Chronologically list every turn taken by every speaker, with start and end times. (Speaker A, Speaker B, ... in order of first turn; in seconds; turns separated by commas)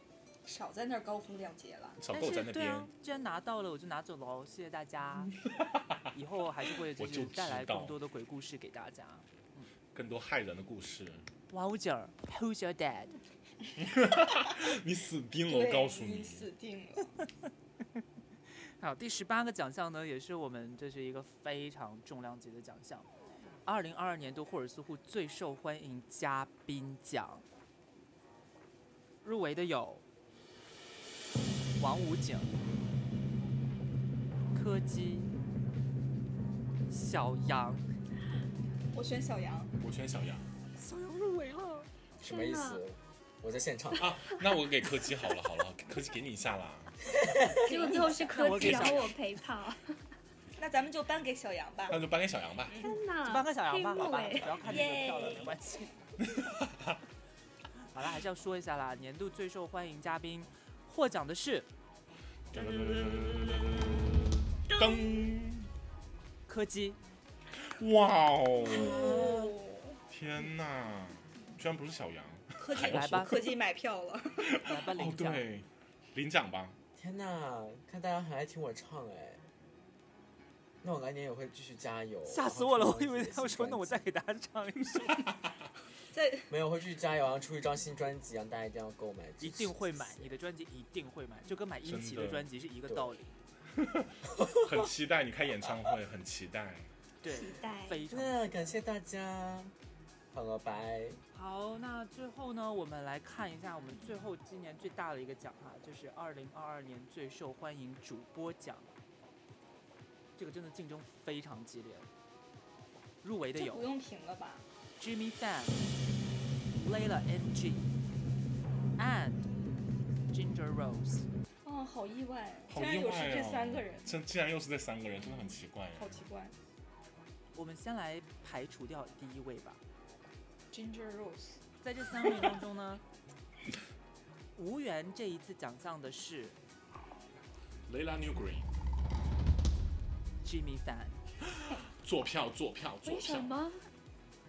Speaker A: 0.5-2.0, Speaker B: 2.0-2.9, Speaker C: 2.1-5.3, Speaker B: 5.8-6.0, Speaker C: 6.1-9.7, Speaker B: 7.0-8.0, Speaker B: 9.9-11.2, Speaker C: 11.5-13.2, Speaker B: 13.8-16.5, Speaker A: 15.5-17.1, Speaker C: 18.8-23.1, Speaker C: 23.7-27.4, Speaker C: 29.2-30.0, Speaker C: 31.8-32.6, Speaker C: 34.5-35.3, Speaker C: 36.9-37.8, Speaker A: 38.9-39.7, Speaker B: 39.8-40.5, Speaker C: 40.8-41.9, Speaker D: 42.2-44.2, Speaker E: 42.2-42.8, Speaker B: 44.0-47.0, Speaker D: 47.2-47.8, Speaker E: 47.5-50.0, Speaker A: 47.7-48.9, Speaker C: 48.3-49.1, Speaker B: 48.6-48.9, Speaker A: 50.6-52.0, Speaker B: 51.9-52.8, Speaker A: 52.7-53.0, Speaker E: 52.8-54.9, Speaker C: 53.2-55.9, Speaker A: 54.5-55.5, Speaker B: 56.4-56.9, Speaker C: 57.9-61.7, Speaker B: 62.5-65.7, Speaker A: 62.5-63.9, Speaker A: 64.7-65.3, Speaker C: 66.5-67.0, Speaker B: 67.6-69.4, Speaker A: 68.6-70.0, Speaker C: 68.7-69.5, Speaker B: 70.1-73.5, Speaker A: 72.6-74.6, Speaker C: 72.7-73.4, Speaker B: 74.4-76.8, Speaker C: 74.6-75.5, Speaker D: 77.0-79.4, Speaker D: 80.8-84.0, Speaker C: 82.3-85.3, Speaker A: 86.1-86.5, Speaker D: 86.5-90.3, Speaker C: 89.4-93.4, Speaker B: 91.8-92.5, Speaker B: 93.8-96.9, Speaker D: 94.3-94.8, Speaker C: 97.2-98.5, Speaker E: 97.3-98.0, Speaker D: 98.1-99.7, Speaker D: 100.3-101.2, Speaker C: 101.3-109.0, Speaker C: 110.4-112.1, Speaker C: 113.2-113.9, Speaker A: 113.6-114.7, Speaker C: 115.0-115.8, Speaker C: 116.8-118.0, Speaker C: 119.0-119.5, Speaker C: 120.3-121.3, Speaker A: 121.7-124.1, Speaker B: 122.7-126.2, Speaker A: 126.0-126.6, Speaker C: 127.5-129.8, Speaker A: 130.7-131.6, Speaker C: 131.8-133.0, Speaker C: 134.6-136.6, Speaker B: 137.9-138.7, Speaker C: 140.4-141.2, Speaker B: 142.0-143.6, Speaker E: 143.0-143.8